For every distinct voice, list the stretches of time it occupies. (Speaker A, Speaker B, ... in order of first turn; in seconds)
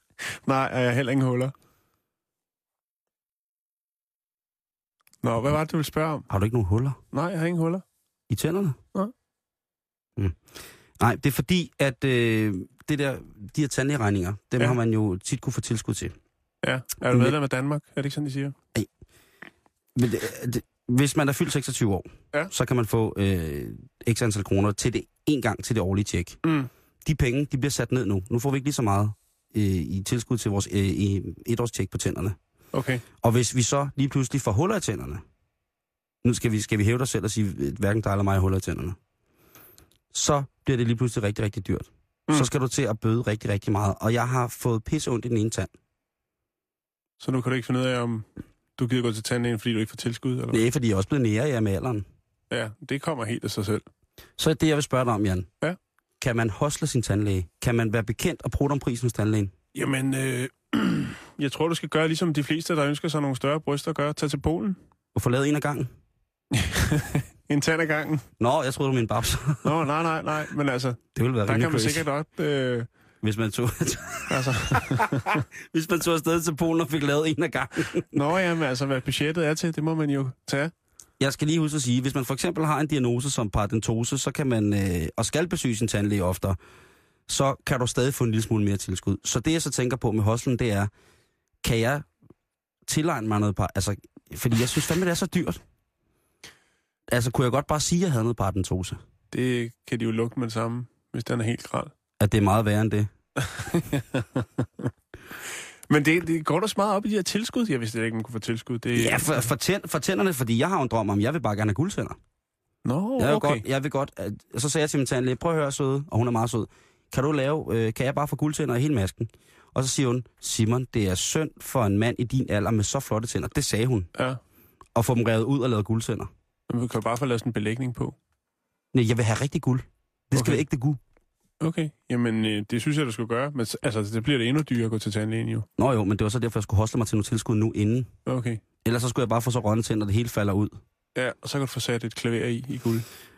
Speaker A: 0.3-1.5, 5.2-6.3, 7.1-7.8, 16.6-18.5, 26.4-26.7, 32.7-33.0, 47.2-48.2, 48.8-50.6, 52.5-53.8, 59.7-64.8, 66.5-68.2, 69.6-72.9, 74.3-75.4, 78.1-80.7, 99.3-101.9, 103.4-104.9, 105.9-109.4, 112.8-113.6, 126.7-128.2, 130.3-130.6, 131.6-135.7, 138.2-138.6, 141.1-143.1
Speaker B: 6.3-7.0, 8.3-8.8, 11.0-16.1, 17.1-17.3, 19.9-26.4, 27.0-32.4, 33.2-35.2, 36.2-39.0, 40.1-45.7, 50.5-52.0, 54.4-55.5, 56.2-59.5, 65.1-65.9, 68.4-69.8, 71.2-72.0, 73.2-75.1, 75.7-78.0, 81.2-86.6, 87.3-90.9, 91.6-92.1, 92.9-95.6, 97.1-99.0, 102.2-103.1, 108.9-112.2, 113.2-124.1, 124.9-126.3, 128.9-131.0, 135.8-138.1, 138.8-140.8